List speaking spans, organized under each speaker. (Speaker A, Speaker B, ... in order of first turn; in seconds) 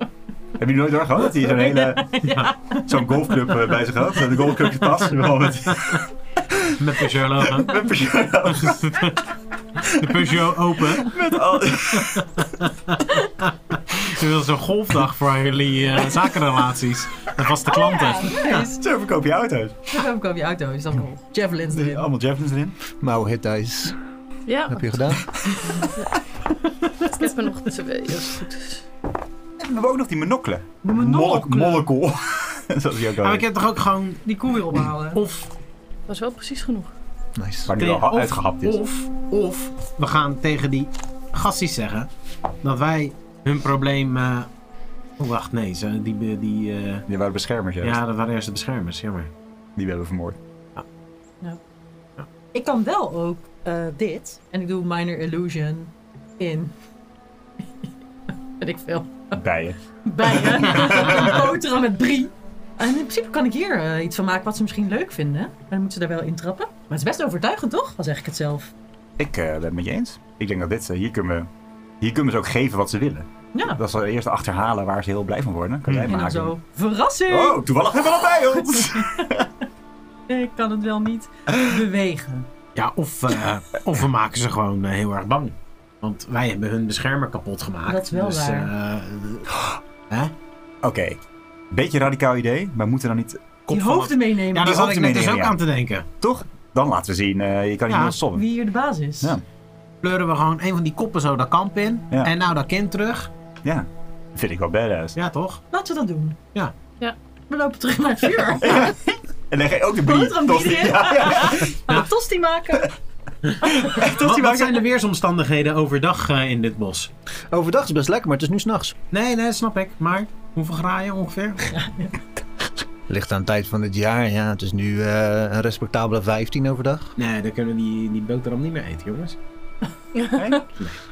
Speaker A: 0.6-6.7, 7.5-9.2, 10.0-10.3, 10.9-12.5, 18.4-19.9, 21.7-22.8, 29.6-33.5, 37.7-38.8, 47.1-48.0, 49.8-50.4, 59.3-61.5, 69.2-71.5, 72.0-76.5, 77.3-79.5, 90.8-91.2, 91.7-93.6, 94.6-95.6, 96.2-98.5, 103.6-105.2, 108.6-112.0, 113.8-114.8, 130.3-130.7
Speaker B: 1.4-3.7, 17.7-18.8, 19.9-22.1, 30.8-31.9, 34.2-35.2, 52.5-56.7, 58.6-59.4, 60.0-68.7, 73.5-73.8, 76.1-77.7, 78.3-79.3, 80.3-82.5, 87.9-88.7, 93.7-94.8, 98.3-99.4, 105.7-106.4, 107.5-108.9, 110.0-112.9, 121.8-122.2
Speaker C: 6.8-7.8, 8.6-9.2, 9.9-11.2, 13.7-18.3, 33.2-34.3, 35.1-35.5, 37.8-42.1, 42.6-44.5, 45.2-47.0, 47.8-49.3, 75.9-76.2, 82.8-90.3, 93.7-96.1, 97.9-98.2, 100.0-103.3, 105.2-105.6, 113.4-117.1, 119.1-121.7, 127.2-129.4
Speaker D: 23.0-24.0, 24.7-25.3, 37.4-37.7, 117.5-119.0, 123.1-127.2
Speaker E: 24.5-25.0, 27.0-28.8, 36.1-36.9